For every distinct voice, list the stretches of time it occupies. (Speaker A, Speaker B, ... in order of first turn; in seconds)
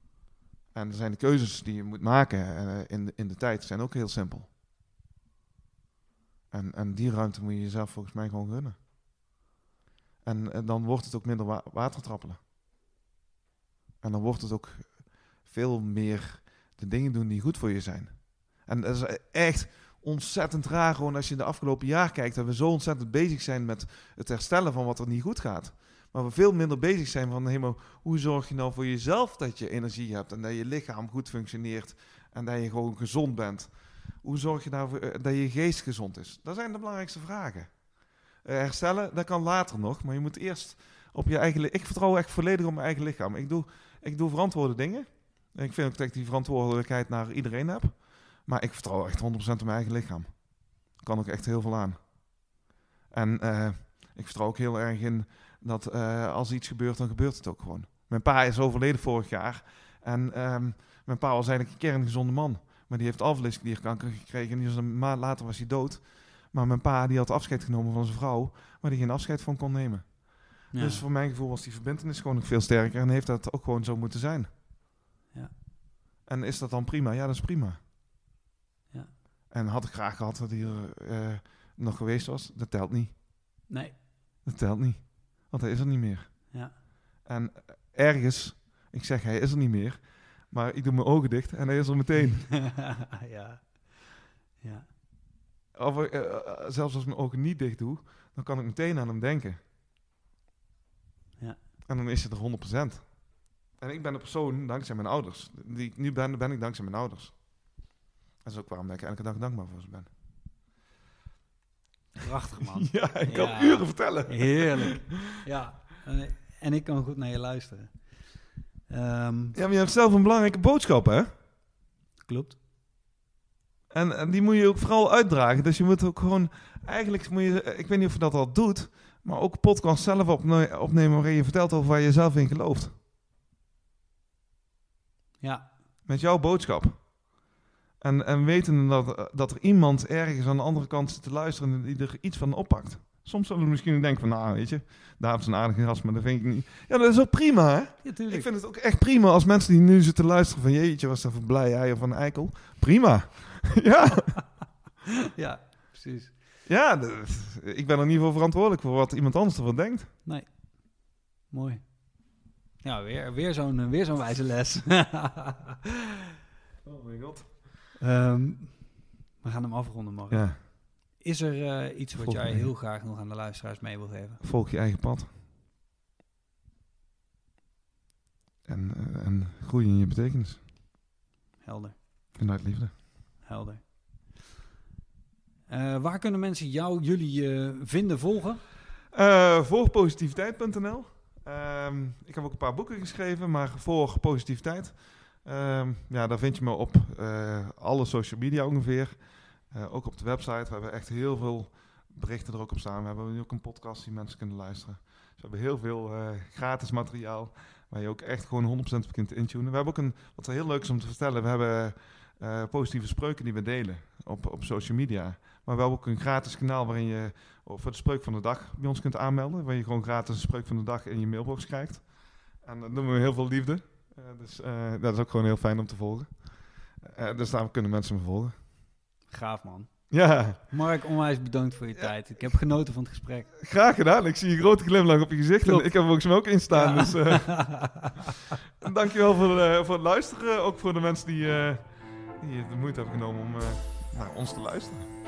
Speaker A: 0.7-4.5, 6.5-8.8, 10.2-12.4, 14.0-37.7, 38.4-50.4, 51.0-52.0, 53.1-74.5, 76.2-77.8, 79.5-83.1, 84.4-86.5, 87.2-92.5, 95.7-99.6, 101.8-103.1, 103.8-107.4, 108.4-110.1, 112.6-115.2, 119.5-121.3, 123.9-132.9, 136.1-137.0, 138.0-154.3, 156.7-160.1, 166.8-167.6, 170.3-170.6, 172.2-172.7, 174.4-175.3, 178.6-180.6, 182.4-182.9, 189.1-199.1, 199.7-222.0, 222.6-226.3, 227.0-228.5, 230.1-230.6, 233.6-237.7, 238.8-245.1
Speaker B: 70.7-71.0, 83.7-83.9, 92.2-93.9, 94.6-94.9, 112.2-117.9, 118.9-119.6, 122.2-122.6, 135.4-135.7, 148.0-148.5, 155.3-156.3, 161.5-161.8, 162.8-165.9, 168.0-174.4, 181.6-182.0, 183.4-183.8, 185.7-188.6, 229.3-229.9, 230.7-233.5, 236.7-238.3